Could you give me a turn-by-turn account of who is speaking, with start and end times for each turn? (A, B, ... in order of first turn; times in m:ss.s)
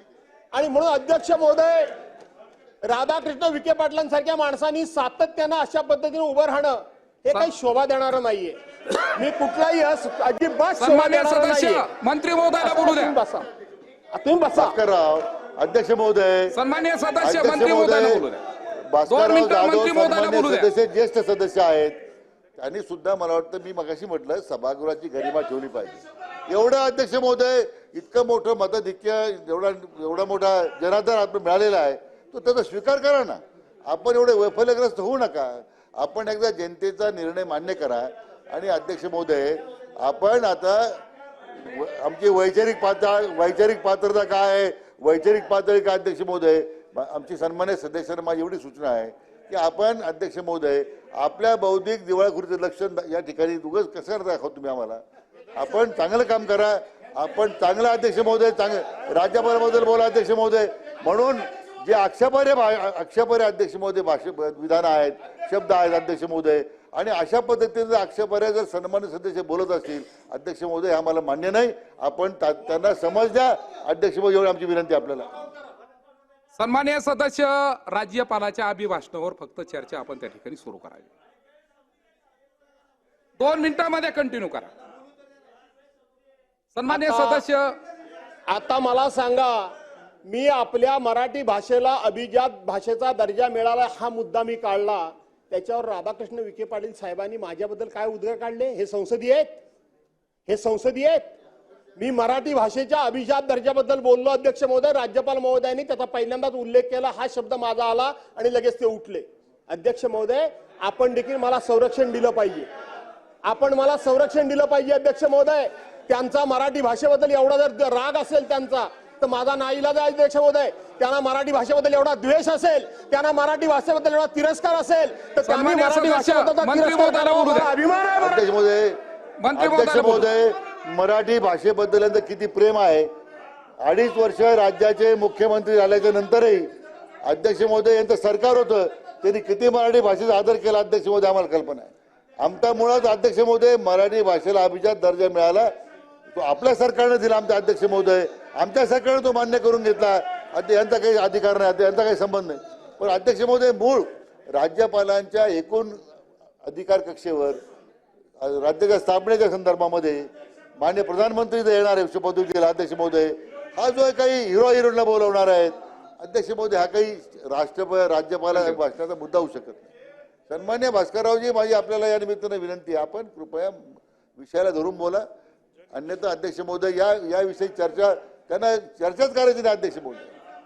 0:00.5-0:01.9 A
0:02.8-0:11.8 A
0:10.8-0:13.2 B
0:12.6-0:13.5 A
0:14.1-0:14.7 A
0:14.5-0:16.5 C
0:16.5-0:18.4 B
0:17.2-0:18.3 C
0:18.9-0:22.0 C
0:19.1-0:20.7 B
0:22.6-0:41.0 C
0:41.6-0:55.0 C
0:55.5-1:15.4 C
1:16.6-1:21.1 B
1:23.4-1:24.7 B
1:26.7-1:27.7 B
1:26.9-1:27.4 A
1:28.5-1:29.7 A
1:30.2-1:39.6 A
1:40.5-1:41.3 A
1:42.0-1:52.7 A
1:53.4-2:08.4 A
2:05.4-2:07.7 B
2:08.2-2:09.0 C
2:09.4-2:10.3 B
2:09.5-2:13.1 C
2:13.8-2:16.7 C
2:17.2-2:25.7 C
2:26.3-2:36.0 C
2:36.6-2:37.6 C
2:38.4-2:40.3 C
2:40.8-2:49.9 C
2:50.5-2:55.3 C
2:55.9-3:00.3 C